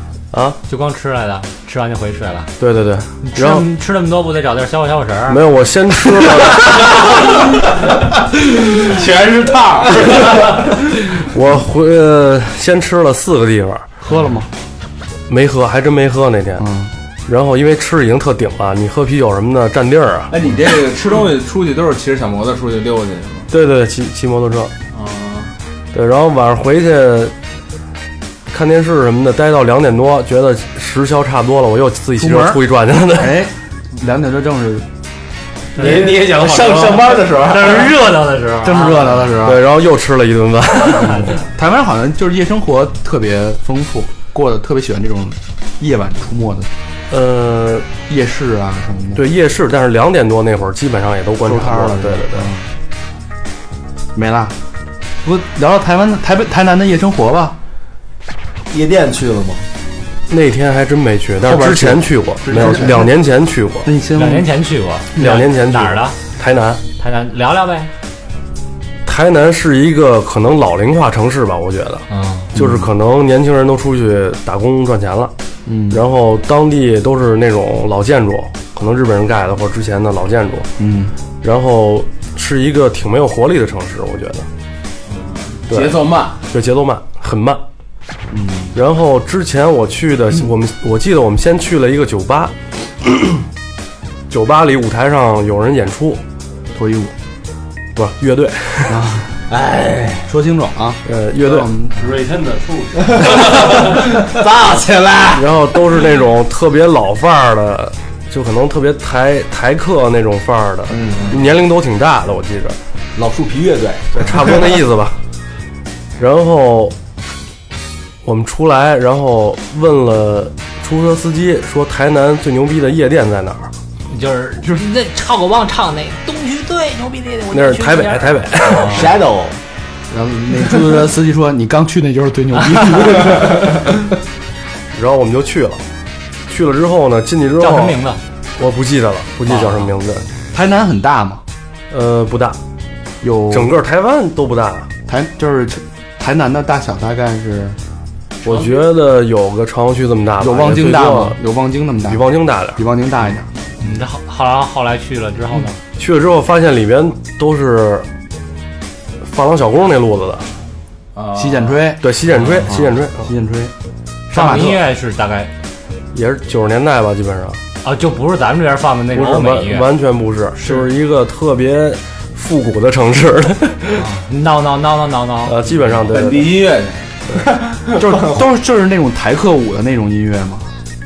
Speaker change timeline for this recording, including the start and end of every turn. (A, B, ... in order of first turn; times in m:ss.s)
0:00.3-0:00.6 A
0:00.7-0:02.5 B
0:02.6-0:03.7 A
0:03.2-0:05.4 B
0:05.3-0:07.0 A
0:06.6-0:07.3 C
0:08.6-0:10.8 C
0:11.1-0:13.9 A
0:14.0-0:14.5 D
0:15.3-0:16.6 A
0:16.6-0:16.9 D
0:17.3-0:20.3 A
0:20.3-0:23.5 E
0:23.5-0:24.7 A
0:24.9-0:25.5 E
0:25.9-0:27.3 A
0:28.5-0:33.4 A
0:32.2-0:32.6 D
0:33.1-0:34.8 D
0:35.8-0:37.4 C
0:35.8-0:36.2 B
0:35.8-0:37.9 F
0:37.3-0:39.3 B
0:38.6-0:39.6 D
0:39.4-0:41.4 A
0:41.0-0:46.7 D
0:47.1-0:47.9 A
0:48.1-0:49.2 D
0:49.2-0:52.5 A
0:51.4-0:52.7 D
0:54.1-0:54.5 D
0:55.2-0:57.6 D
0:58.7-0:59.6 F
1:00.3-1:03.9 A
1:01.4-1:03.1 D
1:02.5-1:02.9 F
1:03.8-1:04.5 D
1:04.1-1:06.2 B
1:05.2-1:06.8 A
1:07.0-1:07.9 B
1:09.0-1:15.3 A
1:12.1-1:12.5 B
1:12.5-1:12.9 D
1:15.6-1:16.0 D
1:15.9-1:20.7 A
1:20.8-1:21.1 D
1:21.4-1:24.5 A
1:25.1-1:26.4 E
1:25.7-1:27.6 A
1:28.3-1:28.8 D
1:28.7-1:33.4 A
1:34.3-1:36.2 A
1:36.7-1:37.1 D
1:38.0-1:39.1 A
1:38.8-1:39.4 D
1:39.5-1:40.3 F
1:40.2-1:42.0 D
1:41.0-1:41.7 A
1:41.9-1:44.2 C
1:43.2-1:45.6 F
1:45.3-1:52.8 A
1:50.9-1:51.5 F
1:53.2-1:54.8 F
1:54.1-1:55.2 A
1:56.2-1:56.9 A
1:58.2-2:03.7 A
2:04.1-2:09.0 B
2:07.5-2:09.1 A
2:08.8-2:09.6 F
2:10.1-2:14.0 D
2:14.9-2:15.8 A
2:16.5-2:18.0 A
2:17.6-2:18.2 B
2:18.6-2:20.2 A
2:19.5-2:19.9 B
2:20.5-2:21.4 D
2:21.9-2:22.6 A
2:23.2-2:23.7 D
2:23.5-2:24.9 A
2:25.1-2:27.8 D
2:28.4-2:31.4 A
2:30.4-2:33.5 D
2:32.1-2:32.8 A
2:33.8-2:35.8 B
2:36.0-2:38.1 A
2:39.2-2:40.4 A
2:41.1-2:41.9 E
2:41.3-2:43.7 D
2:42.0-2:43.3 A
2:42.4-2:42.6 B
2:44.3-2:44.8 D
2:44.3-2:45.5 B
2:46.1-2:47.6 A
2:47.8-2:49.9 B
2:49.1-2:54.0 A
2:53.9-2:55.7 B
2:55.4-2:56.6 A
2:56.1-2:57.1 E
2:57.4-2:58.4 F
2:57.9-3:00.6 D